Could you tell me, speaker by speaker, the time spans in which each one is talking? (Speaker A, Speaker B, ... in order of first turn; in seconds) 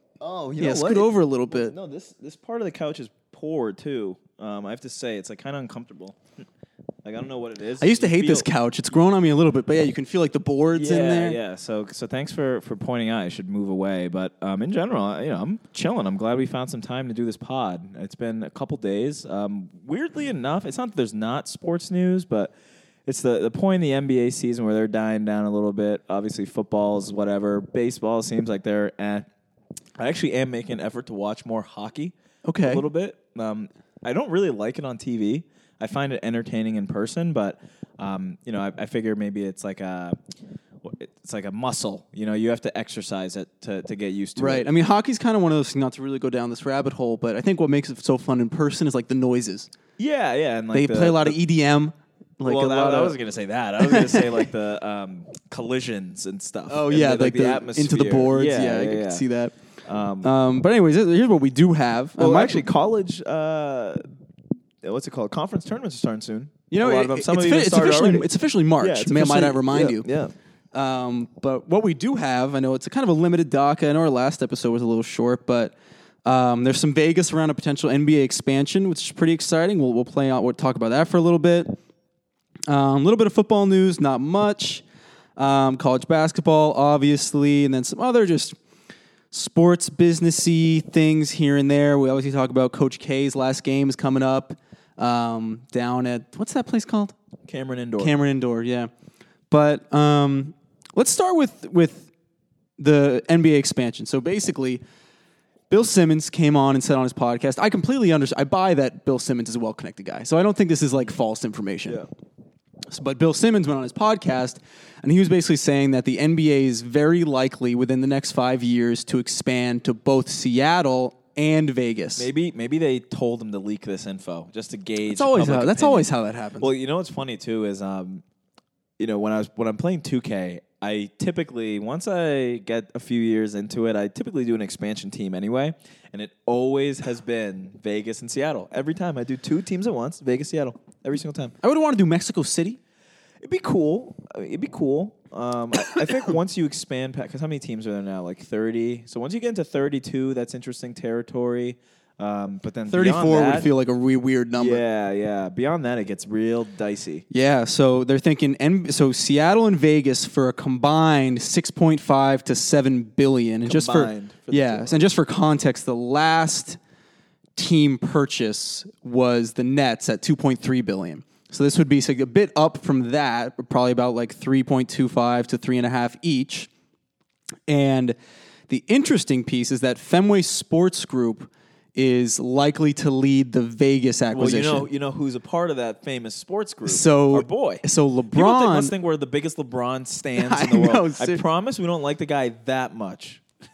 Speaker A: 0.2-6.3, 7.0-8.5, 10.7-22.5, 23.1-29.3, 30.0-40.2, 40.8-44.7, 50.0-51.4, 52.4-59.2, 59.8-60.3, 62.2-64.0, 64.8-70.3, 97.5-98.2, 122.2-128.2, 129.0-141.5, 143.4-153.7, 154.6-157.2, 163.6-164.9, 184.3-193.4
Speaker B: 0.6-1.7, 7.8-11.4, 32.4-32.8, 44.4-49.7, 50.7-53.2, 53.8-54.5, 56.7-59.5, 60.2-62.6, 66.7-70.0, 70.7-81.8, 82.7-84.8, 85.3-88.5, 89.3-97.1, 98.0-98.9, 99.5-102.1, 102.8-104.8, 105.7-112.0, 112.9-122.3, 125.0-126.7, 141.6-142.8, 145.9-146.2, 152.9-154.8, 157.3-166.8, 167.6-176.7, 177.7-178.2, 178.7-184.9, 186.8-188.9, 190.4-191.4